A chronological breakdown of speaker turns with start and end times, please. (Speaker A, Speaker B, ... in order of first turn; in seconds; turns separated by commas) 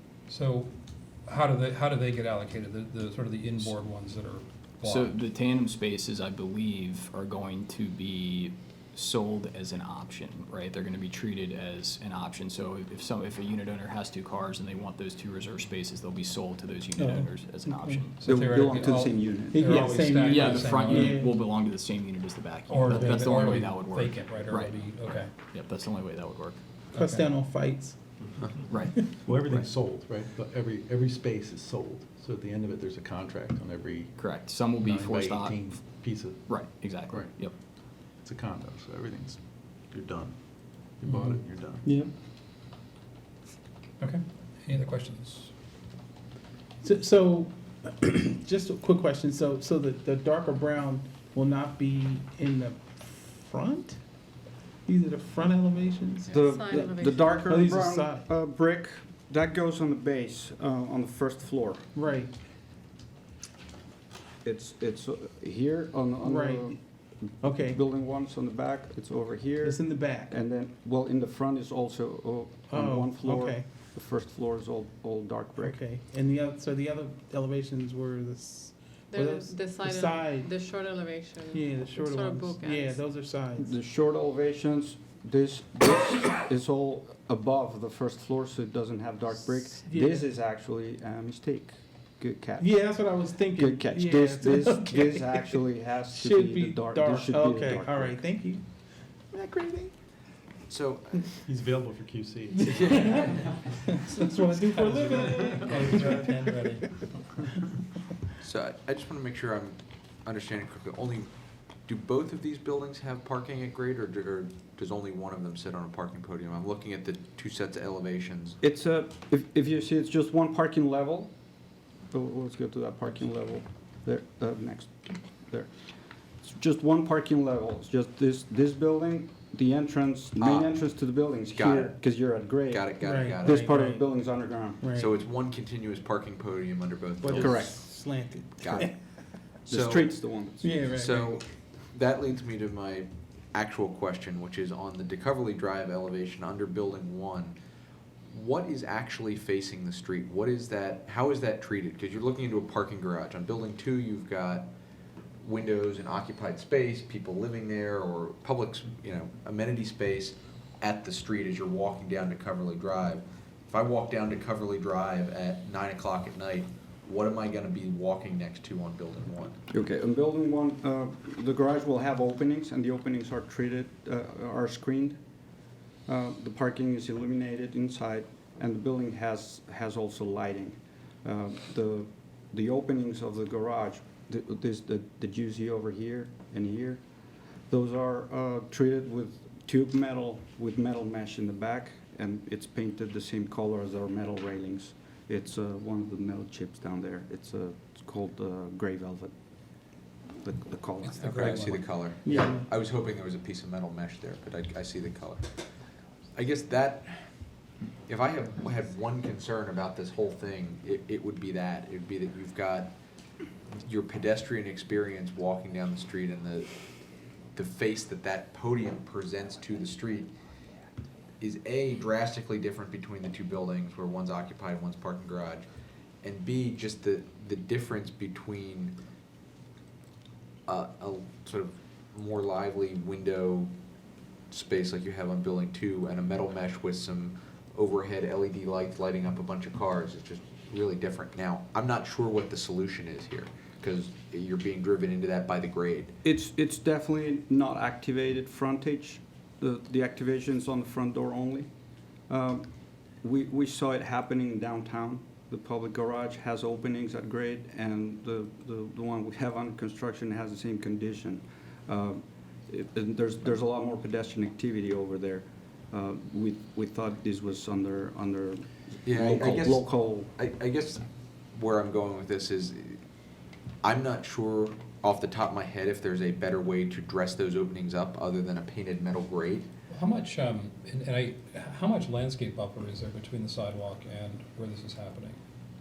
Speaker A: 0.3-0.7, Speaker A: 1.2-5.2, Speaker B: 4.8-18.5, Speaker C: 17.0-18.0, Speaker A: 18.2-21.2, Speaker D: 18.2-20.0, Speaker C: 19.5-21.4, Speaker B: 20.2-26.6, Speaker A: 22.7-25.3, Speaker C: 22.9-23.3, Speaker A: 26.9-27.2, Speaker C: 26.9-28.0, Speaker B: 28.7-29.1, Speaker E: 29.2-34.1, Speaker B: 34.2-35.8, Speaker E: 34.8-37.4, Speaker B: 36.4-37.5, Speaker E: 38.1-41.9, Speaker A: 41.1-41.4, Speaker D: 41.8-42.1, Speaker A: 44.0-45.5, Speaker C: 46.8-54.0, Speaker C: 54.9-58.3, Speaker F: 56.2-57.5, Speaker D: 56.3-61.9, Speaker C: 61.9-62.3, Speaker D: 64.4-75.8, Speaker C: 66.2-66.8, Speaker C: 67.4-67.8, Speaker C: 69.6-70.3, Speaker C: 72.7-73.7, Speaker C: 75.6-80.5, Speaker F: 79.1-83.0, Speaker C: 81.5-83.7, Speaker D: 83.6-98.2, Speaker C: 89.8-90.3, Speaker C: 92.6-99.9, Speaker G: 100.7-101.3, Speaker E: 101.5-103.6, Speaker G: 102.7-103.5, Speaker C: 102.7-107.1, Speaker A: 104.7-106.8, Speaker G: 108.4-111.3, Speaker G: 111.8-118.6, Speaker D: 118.6-121.3, Speaker D: 122.1-125.7, Speaker D: 126.4-134.8, Speaker G: 130.4-130.7, Speaker G: 131.5-132.0, Speaker G: 132.7-133.7, Speaker C: 133.0-134.0, Speaker C: 134.8-135.1, Speaker G: 134.9-137.8, Speaker C: 137.2-138.9, Speaker D: 137.3-137.8, Speaker G: 138.6-138.9, Speaker G: 139.7-140.2, Speaker D: 139.7-140.7, Speaker C: 140.6-141.4, Speaker G: 140.8-147.6, Speaker G: 148.3-154.7, Speaker G: 155.4-169.6, Speaker D: 169.7-175.2, Speaker D: 176.1-187.0, Speaker D: 187.7-199.3, Speaker D: 200.4-201.8, Speaker A: 201.0-202.0, Speaker G: 201.1-205.5, Speaker C: 202.2-202.6, Speaker G: 206.3-207.3, Speaker G: 208.1-213.0, Speaker G: 213.8-216.8, Speaker G: 217.5-220.3, Speaker G: 221.4-225.7, Speaker G: 226.2-229.0, Speaker G: 230.7-233.7, Speaker G: 234.5-246.1, Speaker D: 246.2-251.7, Speaker D: 252.3-252.7, Speaker D: 253.2-270.3, Speaker G: 269.0-273.0, Speaker G: 273.8-279.7, Speaker A: 279.9-285.4